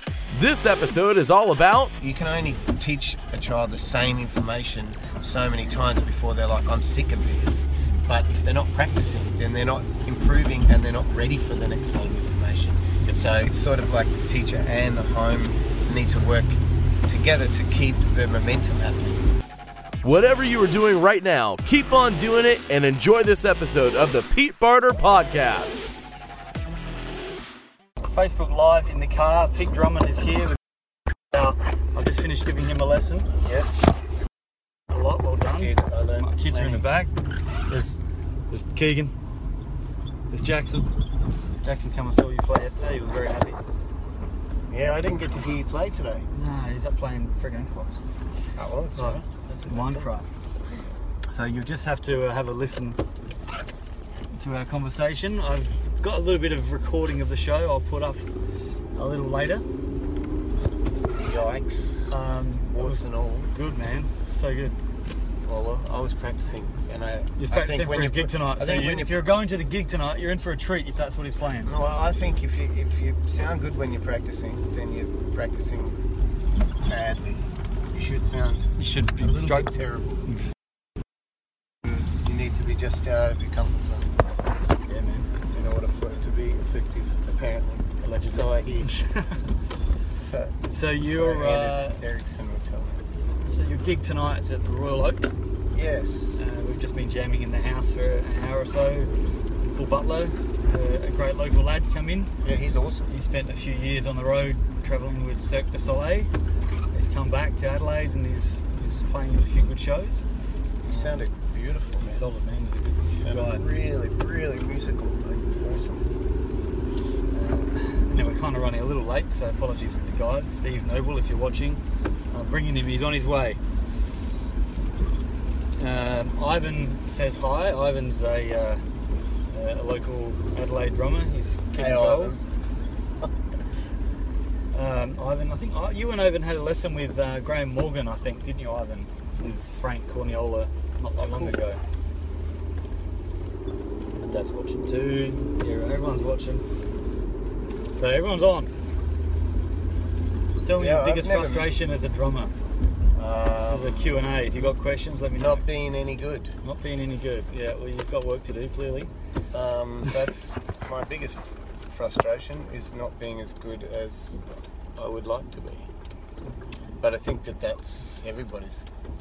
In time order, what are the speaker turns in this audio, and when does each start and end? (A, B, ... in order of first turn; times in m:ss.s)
0:00.3-0:01.9 A
0:02.0-0:19.2 B
0:20.0-0:25.9 A
0:28.0-0:30.6 C
0:31.3-0:33.4 C
0:33.4-0:33.7 B
0:34.9-0:37.1 C
0:35.4-0:36.9 B
0:37.7-0:39.1 C
0:40.3-0:40.9 C
0:41.6-0:43.6 C
0:44.7-0:46.2 B
0:46.3-0:48.0 C
0:48.5-0:50.1 B
0:49.0-0:50.3 C
0:51.3-0:53.0 C
0:54.3-0:58.3 C
0:58.9-0:59.6 C
1:01.2-1:03.5 B
1:02.1-1:04.8 C
1:05.4-1:09.2 B
1:07.4-1:11.7 C
1:11.6-1:16.0 B
1:16.8-1:20.2 B
1:18.8-1:19.7 C
1:20.2-1:20.5 C
1:21.8-1:24.2 B
1:24.9-1:25.3 C
1:25.5-1:29.0 B
1:28.1-1:29.5 C
1:30.1-1:33.0 B
1:30.7-1:32.0 C
1:33.3-1:35.3 C
1:35.7-1:36.5 B
1:36.4-1:39.1 C
1:39.7-1:42.3 C
1:42.4-1:43.1 B
1:43.1-1:46.3 C
1:46.9-1:50.2 C
1:50.9-1:52.2 B
1:50.9-1:51.2 C
1:52.0-1:53.7 C
1:53.0-1:56.1 B
1:57.3-2:03.6 C
2:05.8-2:08.8 C
2:09.5-2:12.5 C
2:11.7-2:12.4 B
2:14.7-2:21.8 C
2:21.1-2:21.6 B
2:24.2-2:26.6 C
2:28.0-2:28.7 C
2:30.6-2:32.6 C
2:30.7-2:31.7 B
2:33.1-2:34.4 B
2:33.6-2:35.6 C
2:35.4-2:36.5 B
2:36.6-2:39.1 C
2:39.5-2:44.4 B
2:45.0-2:45.9 B
2:47.0-2:48.9 B